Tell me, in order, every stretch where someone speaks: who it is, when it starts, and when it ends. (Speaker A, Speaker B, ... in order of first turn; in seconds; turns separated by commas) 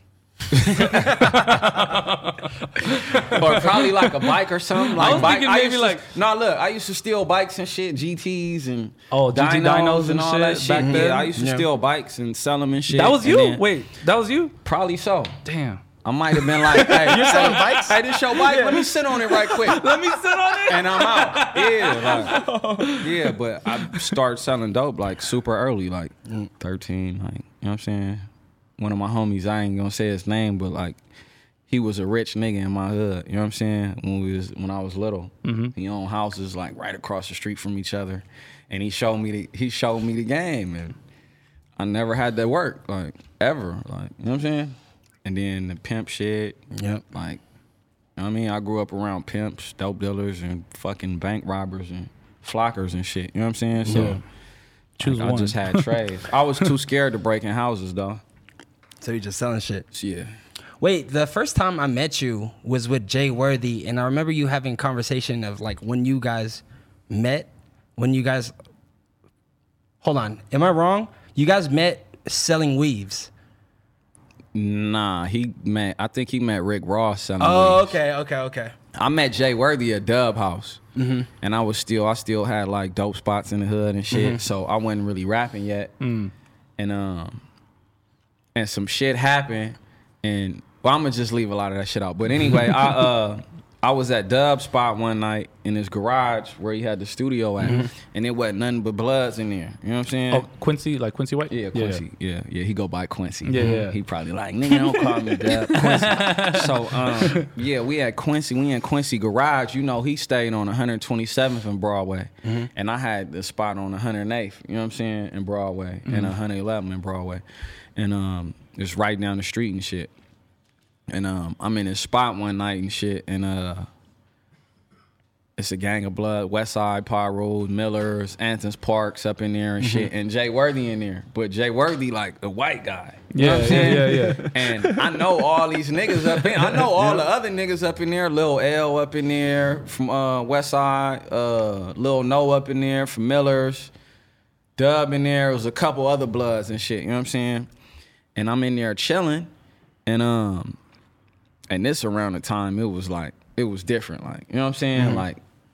Speaker A: 0.5-1.4, Speaker B: 0.8-4.3, Speaker A: 3.2-13.6, Speaker B: 4.9-6.1, Speaker C: 5.0-5.3, Speaker B: 9.1-11.3, Speaker C: 10.8-11.7, Speaker B: 12.9-14.5, Speaker A: 14.6-15.4, Speaker B: 15.4-15.8, Speaker A: 16.0-19.9, Speaker B: 16.4-17.5, Speaker C: 16.7-18.9, Speaker B: 19.4-23.1, Speaker A: 20.6-22.3, Speaker C: 22.1-23.0, Speaker A: 23.0-28.2, Speaker B: 23.7-24.1, Speaker A: 28.8-31.0, Speaker A: 31.7-41.0, Speaker B: 35.4-35.7, Speaker A: 41.8-46.6, Speaker C: 46.7-47.0, Speaker A: 47.1-47.4, Speaker A: 48.2-54.2, Speaker C: 53.9-54.2, Speaker B: 53.9-54.2, Speaker B: 55.0-55.9, Speaker A: 55.0-58.2, Speaker C: 59.0-59.9, Speaker A: 59.9-60.3, Speaker C: 60.8-68.5, Speaker C: 70.0-73.3, Speaker A: 74.5-78.0, Speaker C: 77.4-78.7, Speaker A: 78.9-80.8, Speaker C: 81.0-81.3, Speaker A: 81.4-85.9, Speaker C: 84.1-84.4, Speaker B: 86.0-86.3, Speaker A: 86.8-87.4, Speaker A: 88.5-100.5, Speaker C: 97.6-97.9, Speaker B: 100.3-102.0, Speaker A: 101.5-117.4, Speaker B: 103.4-104.0, Speaker B: 105.7-107.5, Speaker C: 112.4-112.7, Speaker B: 116.0-116.3, Speaker A: 118.0-120.1, Speaker A: 121.1-123.9, Speaker A: 125.6-143.9, Speaker C: 129.8-130.1, Speaker B: 133.3-134.5, Speaker C: 133.6-135.0, Speaker C: 136.3-137.2, Speaker A: 144.8-147.7, Speaker A: 148.3-149.5, Speaker A: 150.1-150.8, Speaker A: 151.7-155.4, Speaker C: 154.9-155.2